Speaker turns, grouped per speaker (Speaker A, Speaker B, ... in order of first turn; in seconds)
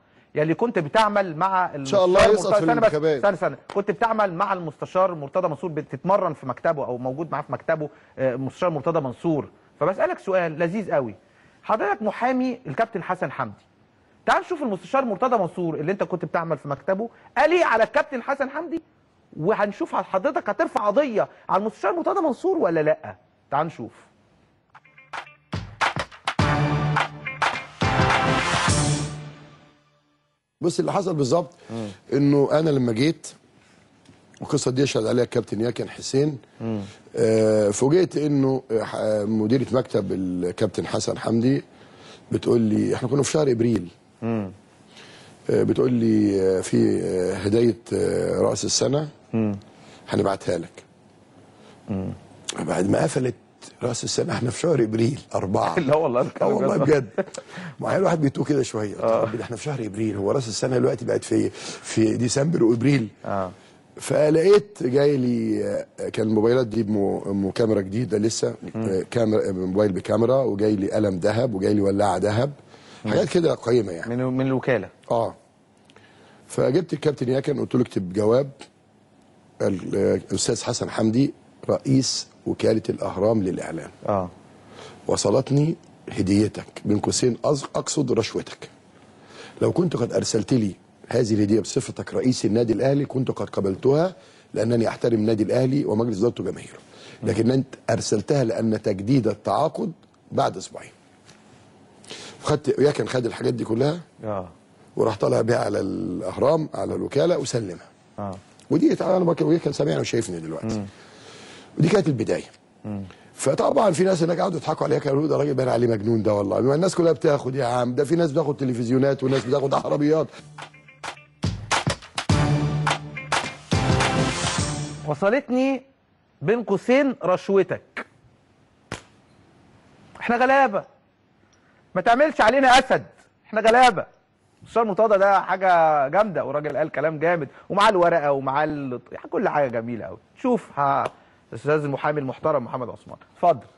Speaker A: 0.3-13.6, 14.2-18.8, 19.4-24.1, 36.6-36.9, 44.2-44.5, 49.3-49.6, 51.9-52.1, 55.7-57.4, 59.0-59.3, 63.2-63.5, 74.0-74.9, 84.0-84.3, 104.2-104.5, 125.0-125.8, 126.4-128.1, 130.2-130.8, 131.9-134.1, 134.6-143.7
Speaker B: 1.9-3.3, 30.6-33.3, 34.4-36.4, 37.1-41.6, 42.3-43.9, 45.5-49.1, 50.1-50.8, 52.5-63.1, 64.0-74.1, 75.1-75.3, 76.5-78.5, 79.6-83.9, 85.1-88.7, 89.6-100.9, 102.4-104.0, 105.0-107.9, 108.7-110.8, 111.8-112.5, 113.4-120.3